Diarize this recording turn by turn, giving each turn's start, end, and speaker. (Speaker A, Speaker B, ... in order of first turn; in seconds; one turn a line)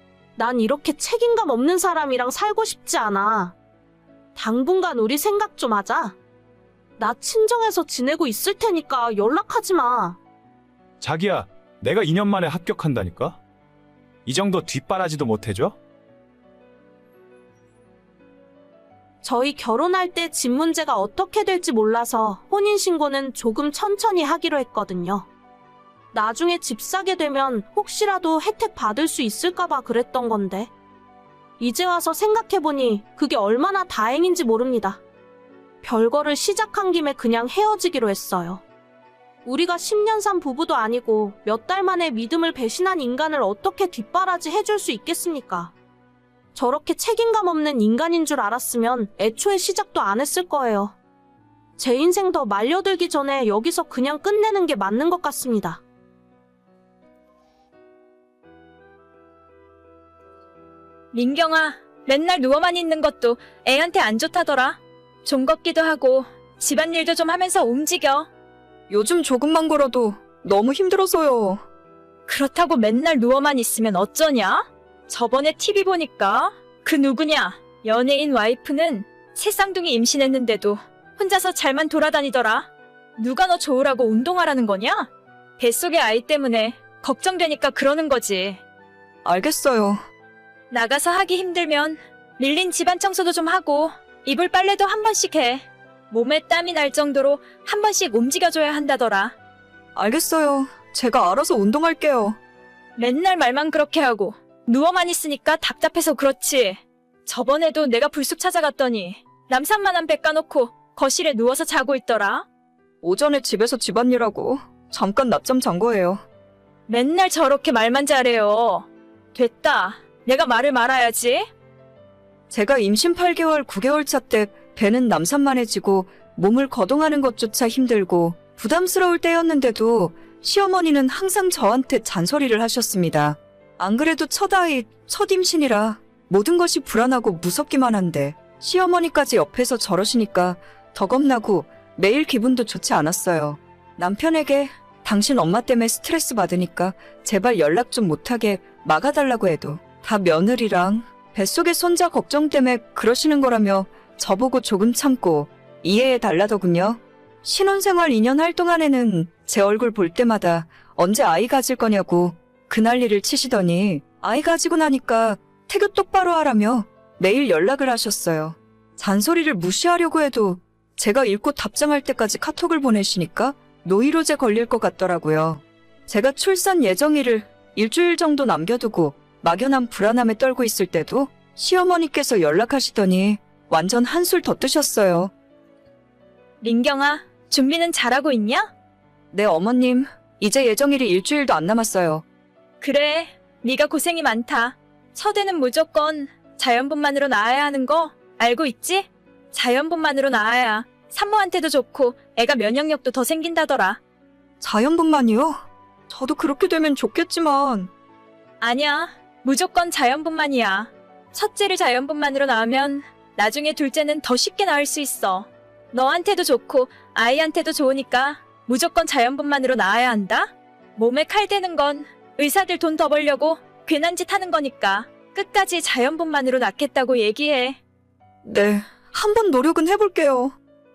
Speaker A: 0.4-3.5
Speaker A: 4.4-6.2
Speaker A: 7.0-10.2
Speaker B: 11.0-13.4
Speaker B: 14.3-15.8
Speaker A: 19.2-25.3
Speaker A: 26.1-30.7
Speaker A: 31.6-35.0
Speaker A: 35.8-38.6
Speaker A: 39.5-45.7
Speaker A: 46.5-51.0
Speaker A: 51.8-55.8
Speaker C: 61.1-68.3
Speaker D: 68.9-71.6
Speaker C: 72.3-88.6
Speaker D: 89.2-90.0
Speaker C: 90.7-99.3
Speaker D: 100.0-102.4
Speaker C: 103.0-112.5
Speaker D: 113.0-116.2
Speaker C: 116.9-121.5
Speaker D: 122.5-185.3
Speaker C: 186.6-188.7
Speaker D: 189.3-192.2
Speaker C: 192.8-204.0
Speaker D: 204.6-207.9
Speaker C: 208.6-227.8
Speaker D: 228.4-230.6